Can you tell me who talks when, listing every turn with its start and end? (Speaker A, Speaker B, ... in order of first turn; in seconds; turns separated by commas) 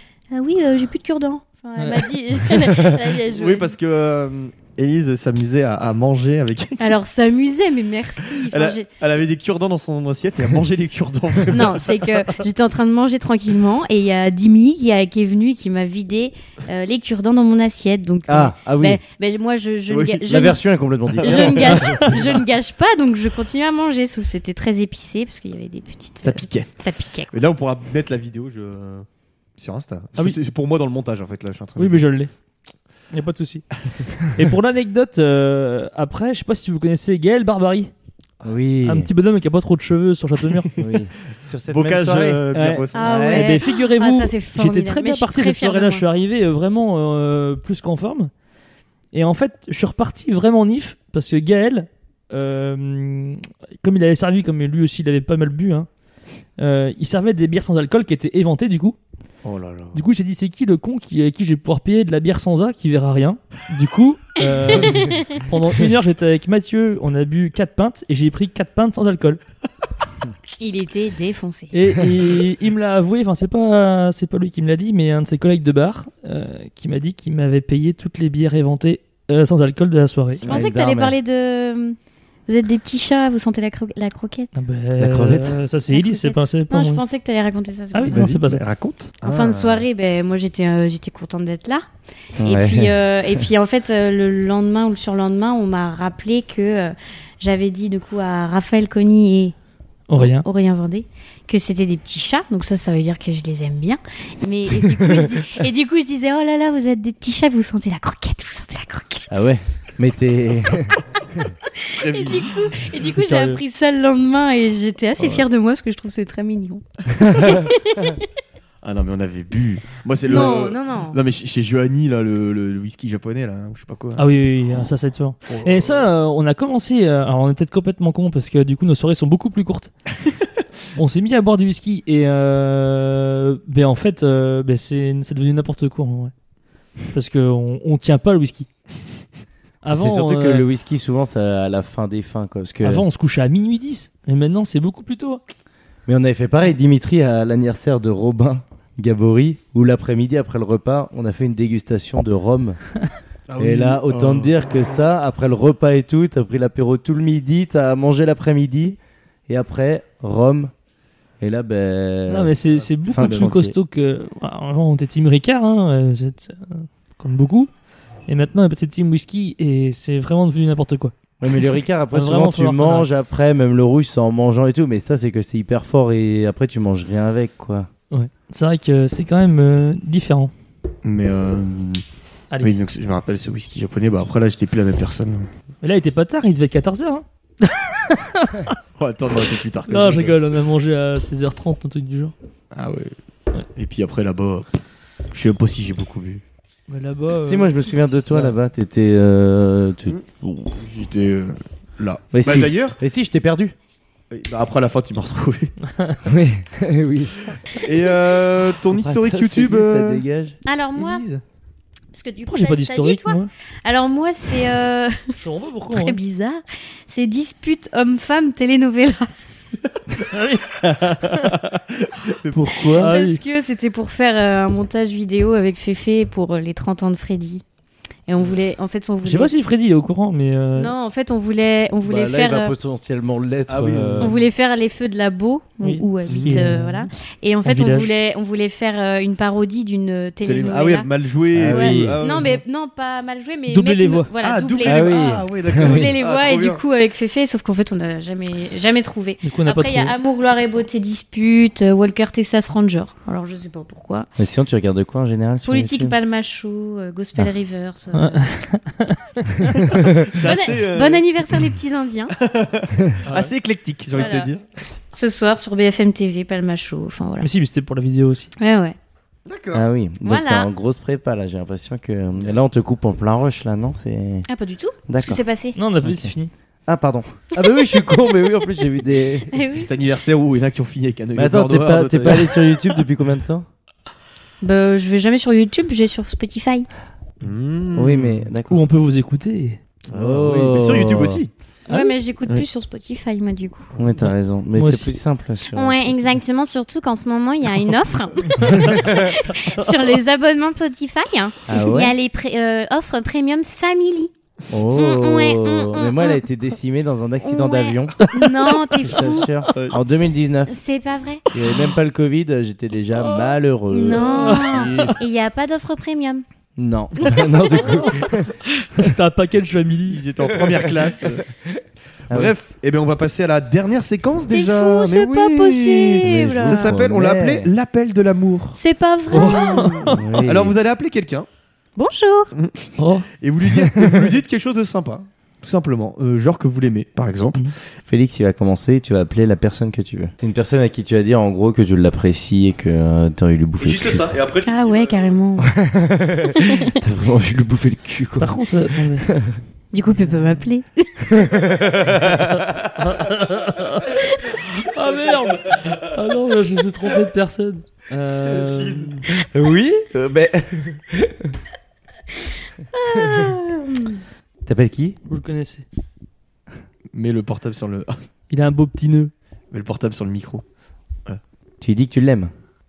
Speaker A: 0.3-3.7, Speaker B: 1.8-2.1, Speaker C: 3.3-7.0, Speaker A: 6.8-8.9, Speaker C: 8.2-12.1, Speaker A: 11.5-20.6, Speaker D: 18.3-19.0, Speaker C: 19.9-20.3, Speaker D: 20.3-22.0, Speaker C: 21.1-21.6, Speaker A: 21.2-27.3, Speaker C: 26.2-29.1, Speaker C: 29.6-32.0, Speaker B: 31.8-32.3, Speaker B: 33.1-37.9, Speaker D: 38.4-39.1, Speaker B: 38.8-40.7, Speaker D: 40.8-42.4, Speaker C: 41.7-43.2, Speaker B: 42.5-48.3, Speaker A: 42.9-46.0, Speaker D: 43.0-43.5, Speaker B: 49.1-55.9, Speaker B: 56.6-59.0, Speaker C: 59.4-60.0, Speaker B: 59.9-69.4, Speaker A: 64.4-65.4, Speaker A: 70.6-71.7, Speaker B: 71.7-80.4, Speaker D: 80.4-81.1, Speaker A: 80.4-84.5, Speaker B: 84.5-87.1, Speaker D: 85.0-85.6, Speaker A: 85.9-88.2, Speaker B: 87.9-88.6, Speaker C: 88.1-89.8, Speaker A: 89.2-91.8, Speaker D: 92.4-93.4, Speaker A: 92.4-99.5, Speaker B: 100.1-100.4, Speaker A: 100.1-109.3, Speaker D: 109.3-111.5, Speaker A: 111.8-118.2, Speaker C: 112.0-112.8, Speaker B: 113.2-113.6, Speaker C: 115.2-115.4, Speaker C: 118.8-124.9, Speaker A: 120.2-121.2, Speaker B: 124.2-129.9, Speaker C: 125.5-126.1, Speaker B: 130.9-136.3, Speaker B: 137.0-138.7, Speaker B: 139.8-140.6, Speaker D: 139.9-143.0, Speaker B: 142.8-145.4, Speaker D: 146.1-152.8, Speaker C: 153.5-154.5, Speaker D: 153.6-160.7, Speaker D: 161.4-163.7, Speaker B: 162.3-167.7, Speaker C: 162.8-163.5, Speaker B: 168.2-171.1, Speaker D: 171.4-177.9, Speaker B: 172.1-173.1, Speaker B: 178.1-180.5, Speaker C: 181.0-182.0, Speaker C: 182.6-185.5, Speaker B: 185.8-188.8, Speaker C: 189.0-190.5, Speaker B: 189.9-192.3, Speaker C: 192.7-193.1, Speaker C: 193.8-194.7, Speaker C: 195.3-196.4, Speaker B: 196.9-197.8, Speaker D: 197.4-200.7, Speaker C: 200.1-203.0, Speaker D: 202.3-203.7, Speaker C: 204.3-205.7, Speaker D: 206.2-207.5, Speaker C: 207.5-210.2, Speaker D: 208.9-210.6, Speaker A: 210.7-211.2, Speaker C: 210.9-211.4, Speaker A: 212.1-215.4, Speaker B: 212.5-213.5, Speaker B: 215.4-216.2, Speaker A: 215.9-219.3, Speaker C: 219.9-222.9, Speaker B: 220.3-220.8, Speaker D: 222.5-223.1, Speaker A: 222.9-227.6, Speaker B: 223.0-223.4, Speaker A: 228.3-229.5, Speaker B: 229.2-230.9, Speaker A: 230.8-232.7, Speaker D: 232.0-234.4, Speaker C: 233.7-234.4, Speaker A: 234.2-241.1, Speaker B: 235.8-237.0, Speaker C: 236.3-236.7, Speaker B: 237.6-238.1, Speaker C: 240.4-242.6, Speaker D: 241.5-242.2, Speaker A: 241.7-254.3, Speaker B: 243.7-244.3, Speaker C: 244.4-246.8, Speaker D: 244.8-246.1, Speaker B: 249.4-250.1, Speaker D: 254.4-256.1, Speaker A: 255.6-258.4, Speaker B: 258.1-259.9, Speaker D: 259.8-260.1, Speaker C: 260.2-261.2, Speaker A: 260.4-262.3, Speaker C: 262.4-264.6, Speaker B: 263.2-263.5, Speaker A: 264.1-264.5, Speaker B: 264.1-264.4, Speaker A: 265.1-267.5, Speaker B: 267.4-268.5, Speaker A: 268.6-269.0, Speaker C: 269.4-269.8, Speaker D: 269.7-274.5, Speaker A: 270.2-270.7, Speaker A: 274.5-275.8, Speaker D: 275.1-275.4, Speaker B: 275.8-276.5, Speaker D: 276.0-276.3, Speaker D: 276.9-279.5, Speaker A: 279.5-279.9, Speaker C: 279.7-282.6, Speaker D: 281.3-283.7, Speaker A: 284.6-286.9, Speaker C: 287.4-288.5, Speaker D: 287.9-288.8, Speaker B: 288.7-289.8, Speaker C: 290.1-291.5, Speaker D: 290.1-291.4, Speaker A: 291.9-293.9, Speaker D: 293.9-296.1, Speaker B: 294.2-295.1, Speaker A: 295.7-304.3, Speaker B: 298.6-300.1, Speaker D: 301.7-302.1, Speaker D: 304.7-308.2, Speaker A: 304.9-306.4, Speaker A: 307.4-309.5, Speaker B: 308.3-309.2, Speaker D: 309.0-310.7, Speaker C: 309.7-310.0, Speaker A: 310.7-311.4, Speaker D: 311.5-314.6, Speaker A: 313.9-316.4, Speaker B: 314.2-315.1, Speaker C: 314.5-315.2, Speaker D: 316.8-318.6, Speaker A: 317.2-318.2, Speaker B: 318.9-320.2, Speaker C: 320.1-321.4, Speaker D: 320.5-321.1, Speaker D: 321.7-322.5, Speaker C: 322.3-328.8, Speaker A: 324.5-326.9, Speaker D: 326.2-327.7, Speaker A: 328.7-330.2, Speaker B: 329.3-330.2, Speaker D: 330.1-330.8, Speaker C: 330.4-331.5, Speaker A: 332.0-332.5, Speaker C: 332.5-337.7, Speaker B: 333.0-333.3, Speaker D: 338.1-344.3, Speaker C: 343.8-345.4, Speaker A: 344.6-345.7, Speaker D: 345.6-348.6, Speaker A: 346.6-346.9, Speaker B: 348.4-349.3, Speaker D: 349.2-349.6, Speaker A: 349.9-351.2, Speaker B: 350.2-350.6, Speaker D: 351.3-352.9, Speaker B: 352.1-359.2, Speaker C: 358.4-359.1, Speaker D: 359.3-361.5, Speaker A: 362.9-364.2, Speaker D: 364.6-365.2, Speaker B: 365.3-365.8, Speaker C: 367.1-368.1, Speaker B: 368.5-369.3, Speaker C: 369.7-370.6, Speaker D: 371.8-372.5